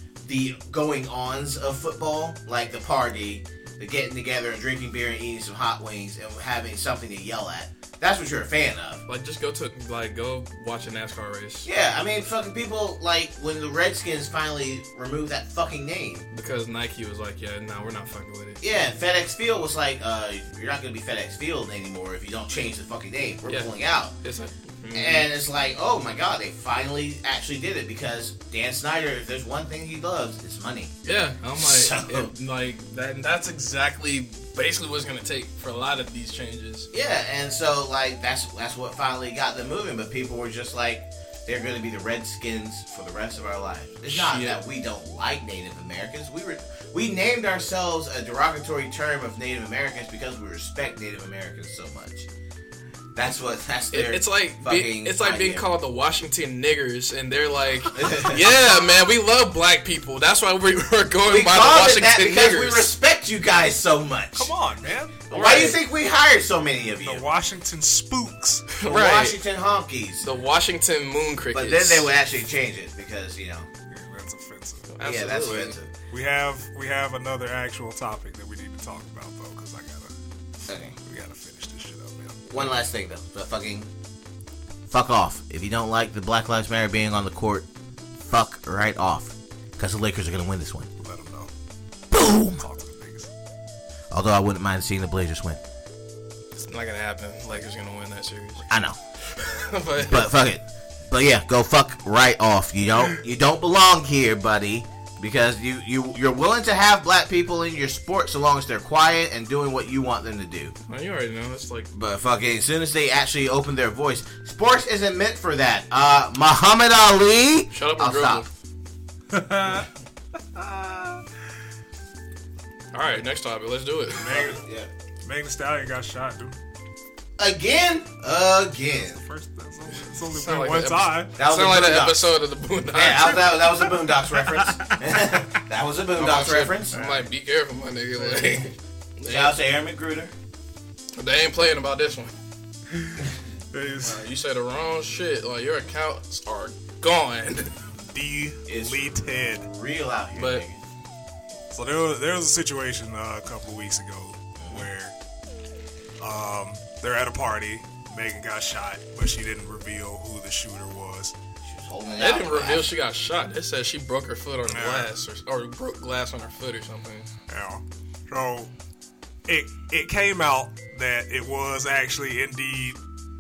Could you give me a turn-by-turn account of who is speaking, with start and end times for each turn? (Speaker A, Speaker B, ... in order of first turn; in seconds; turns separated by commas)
Speaker A: 0.2-9.0, Speaker B: 9.1-11.7, Speaker A: 11.7-16.3, Speaker B: 16.3-18.6, Speaker A: 18.6-24.1, Speaker B: 23.5-25.3, Speaker A: 24.9-30.9, Speaker B: 31.1-36.9, Speaker A: 31.6-32.3, Speaker A: 36.9-52.3, Speaker B: 44.1-44.6, Speaker A: 53.1-55.7, Speaker B: 53.9-62.9, Speaker A: 57.9-58.5, Speaker A: 61.3-64.5, Speaker C: 64.3-65.2, Speaker A: 65.3-67.3, Speaker B: 65.3-65.8, Speaker C: 67.0-68.7, Speaker B: 68.7-69.4, Speaker A: 68.8-70.3, Speaker B: 70.2-72.1, Speaker A: 71.5-73.7, Speaker C: 73.9-74.9, Speaker B: 74.9-75.8, Speaker A: 75.0-75.9, Speaker C: 76.1-80.1, Speaker A: 80.7-81.0, Speaker C: 81.0-82.4, Speaker A: 82.5-83.9, Speaker A: 84.9-87.7, Speaker A: 88.2-90.9, Speaker C: 91.0-91.5, Speaker A: 92.1-92.6, Speaker C: 92.6-93.3, Speaker A: 94.1-95.6, Speaker B: 96.6-98.7, Speaker A: 98.7-99.0, Speaker B: 99.3-100.3, Speaker A: 100.0-110.8, Speaker B: 110.9-111.9, Speaker A: 111.9-118.5, Speaker B: 117.7-118.5, Speaker C: 119.3-121.2, Speaker B: 122.9-124.3, Speaker C: 124.2-124.6, Speaker A: 124.2-124.9, Speaker C: 125.2-126.5, Speaker A: 127.4-129.2, Speaker C: 128.9-131.3, Speaker B: 130.3-133.6, Speaker A: 131.4-132.2, Speaker A: 132.9-137.0, Speaker C: 134.4-135.1, Speaker B: 136.2-139.5, Speaker C: 136.9-137.3, Speaker A: 139.3-140.3, Speaker B: 141.2-142.3, Speaker C: 143.7-144.2, Speaker B: 144.0-147.8, Speaker C: 148.1-149.7, Speaker A: 148.7-150.8, Speaker B: 150.4-150.6, Speaker C: 151.7-155.1, Speaker A: 154.6-154.9, Speaker C: 156.2-161.3, Speaker A: 161.6-162.9, Speaker B: 162.2-167.3, Speaker C: 164.7-165.1, Speaker C: 167.5-168.7, Speaker C: 169.5-173.0